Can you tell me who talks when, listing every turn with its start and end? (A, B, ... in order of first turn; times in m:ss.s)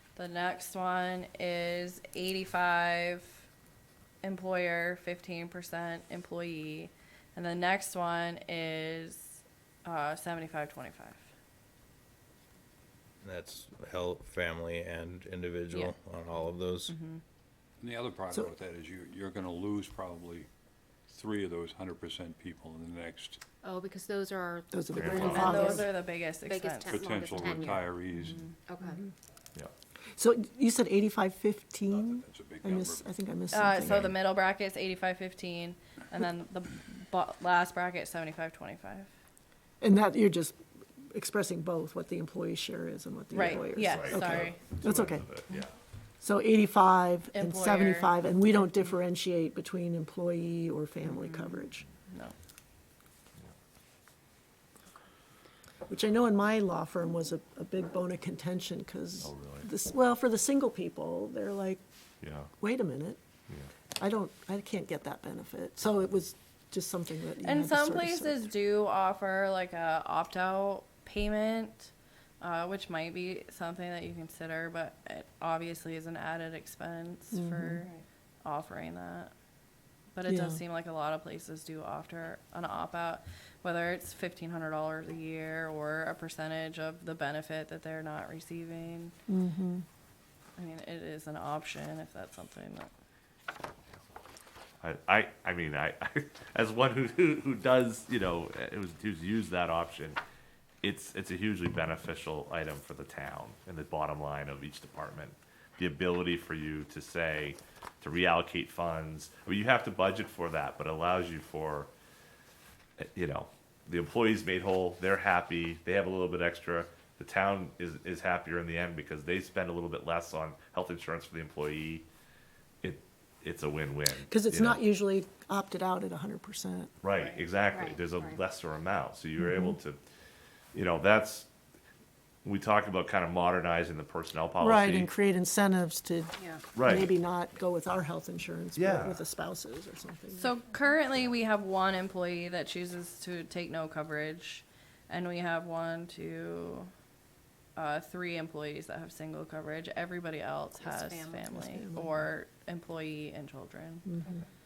0:00.2-0:03.4 A
0:04.2-0:11.2 A
0:13.2-0:17.0 B
0:16.9-0:17.2 A
0:17.8-0:20.5 C
0:21.1-0:23.4 C
0:23.6-0:25.9 D
0:24.7-0:25.8 E
0:24.9-0:25.6 F
0:25.1-0:27.0 A
0:26.4-0:29.0 D
0:26.9-0:28.5 C
0:30.2-0:34.1 E
0:32.0-0:32.8 C
0:33.5-0:39.1 A
0:39.8-0:40.6 E
0:41.1-0:45.4 E
0:43.3-0:44.6 A
0:43.4-0:45.7 F
0:46.2-0:51.8 E
0:47.3-0:48.2 A
0:51.0-0:51.7 D
0:52.1-0:52.3 A
0:55.9-1:01.8 E
0:59.2-0:59.7 F
1:02.2-1:02.5 F
1:02.6-1:03.2 E
1:04.0-1:08.5 E
1:07.4-1:17.9 A
1:17.3-1:17.8 E
1:18.4-1:19.3 A
1:20.1-1:29.1 A
1:20.3-1:20.6 E
1:29.3-1:29.8 E
1:30.6-1:32.9 A
1:34.8-1:40.2 F
1:40.8-1:51.9 F
1:53.0-2:02.0 F
2:02.8-2:04.8 F
2:04.3-2:06.9 E
2:07.0-2:10.0 F
2:07.2-2:08.4 D
2:09.4-2:09.8 E
2:10.7-2:11.5 F
2:12.4-2:15.1 F
2:14.6-2:20.5 E
2:16.4-2:16.7 D
2:16.8-2:17.1 F
2:18.8-2:19.2 F
2:20.4-2:26.9 A
2:27.8-2:34.1 A
2:30.8-2:31.5 D
2:31.5-2:32.2 E
2:34.0-2:34.4 E